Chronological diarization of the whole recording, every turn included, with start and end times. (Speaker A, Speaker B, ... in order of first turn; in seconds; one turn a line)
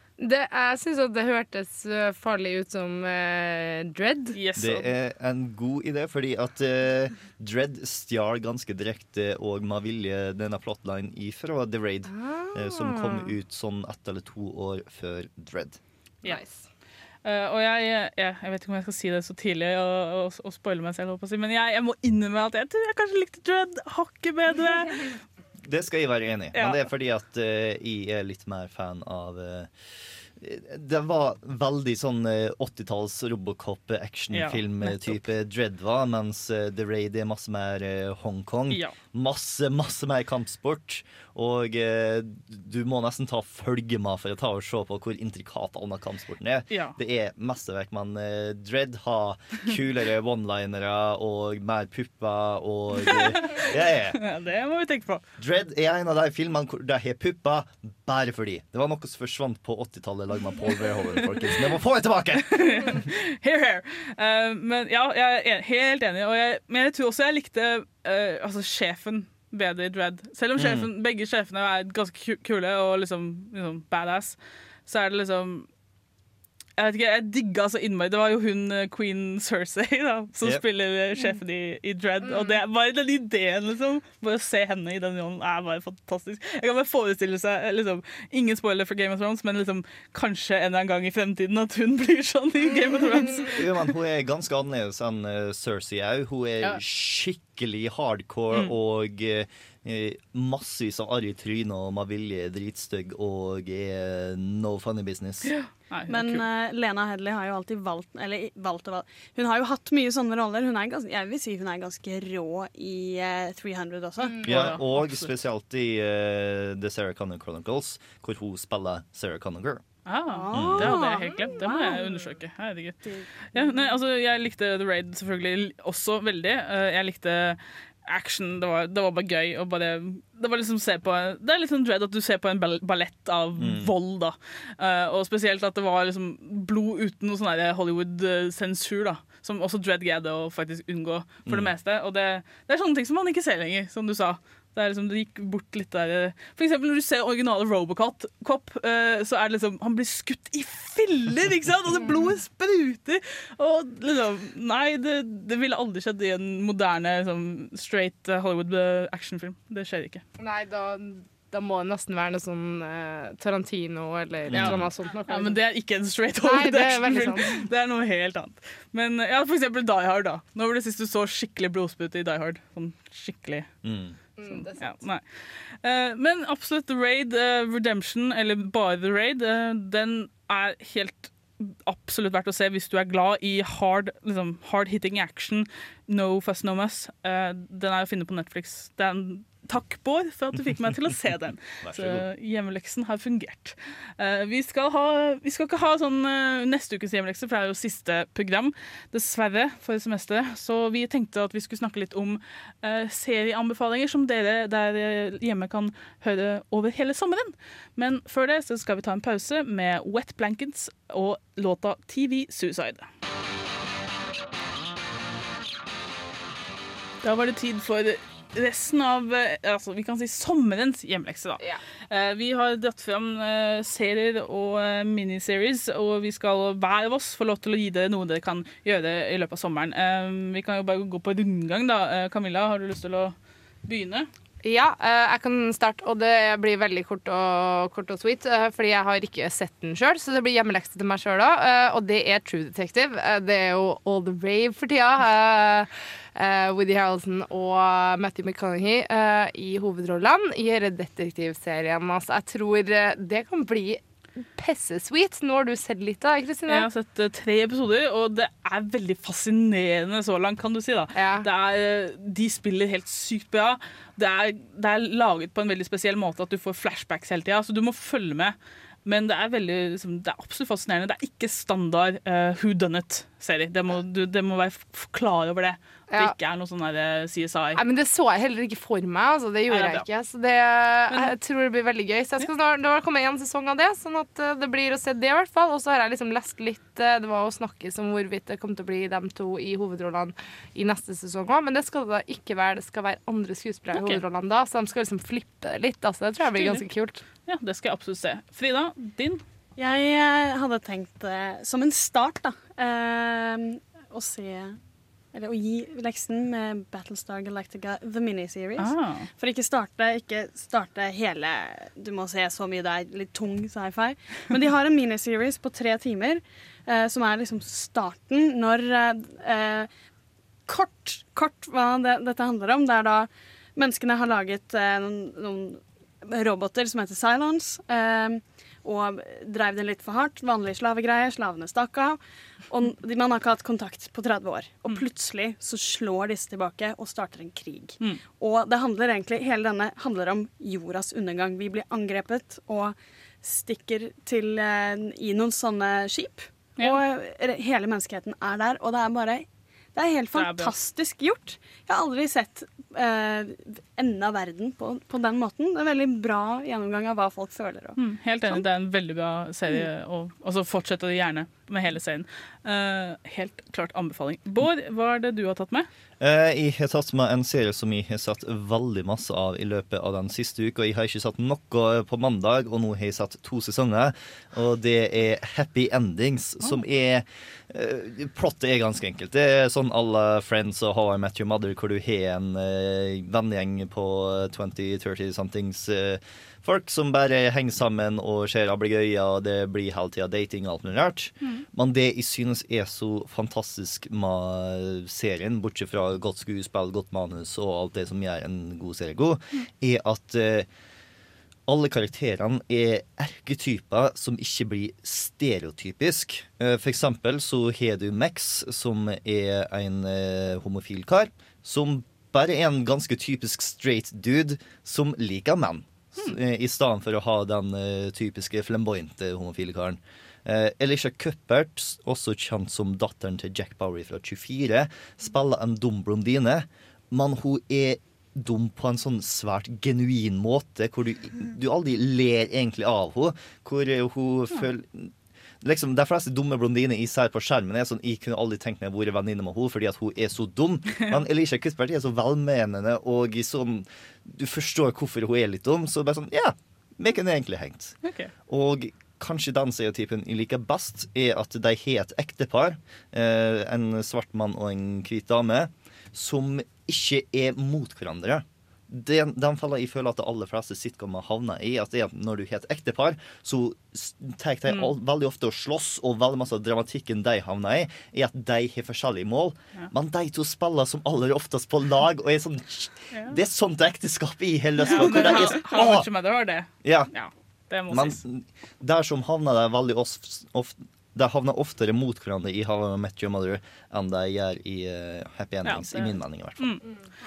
Speaker A: 0.2-4.4
Speaker B: 4.3-4.9
Speaker C: 4.5-15.8
Speaker A: 12.1-13.3
Speaker A: 16.2-16.6
Speaker B: 17.2-25.2
Speaker C: 25.6-29.7
Speaker B: 26.5-26.8
Speaker C: 30.3-54.2
Speaker B: 34.3-35.2
Speaker B: 38.7-39.0
Speaker B: 46.7-47.0
Speaker B: 53.0-55.2
Speaker C: 55.4-63.0
Speaker B: 62.5-75.7
Speaker C: 70.6-70.9
Speaker B: 76.8-93.6
Speaker A: 82.2-82.6
Speaker C: 93.5-105.5
Speaker B: 105.4-106.4
Speaker D: 106.1-114.5
Speaker B: 114.4-115.3
Speaker C: 114.4-119.8
Speaker B: 120.0-160.2
Speaker D: 120.3-122.3
Speaker C: 120.5-121.0
Speaker D: 123.0-123.9
Speaker C: 133.6-133.9
Speaker C: 141.4-141.7
Speaker A: 160.4-165.6
Speaker C: 164.5-164.9
Speaker B: 164.5-173.7
Speaker A: 166.4-167.6
Speaker C: 173.8-174.2
Speaker A: 174.4-175.0
Speaker B: 174.8-213.1
Speaker C: 191.8-192.2
Speaker B: 217.2-234.3
Speaker A: 234.6-256.9
Speaker B: 256.7-268.5
Speaker A: 261.1-261.4
Speaker B: 269.1-277.8
Speaker A: 276.1-276.3
Speaker A: 277.8-297.2
Speaker B: 279.7-280.1
Speaker B: 293.9-294.2
Speaker B: 296.5-296.8
Speaker B: 297.4-299.4
Speaker D: 299.8-304.8
Speaker D: 305.3-319.9
Speaker B: 308.8-309.3
Speaker D: 320.7-358.0
Speaker B: 350.3-350.7
Speaker B: 358.0-365.9
Speaker C: 366.2-400.7
Speaker C: 401.7-447.9
Speaker B: 448.0-448.3
Speaker C: 448.5-476.1
Speaker B: 464.7-464.9
Speaker B: 473.1-473.4
Speaker B: 474.8-478.2
Speaker C: 476.8-477.1
Speaker C: 477.9-486.8
Speaker B: 485.6-486.8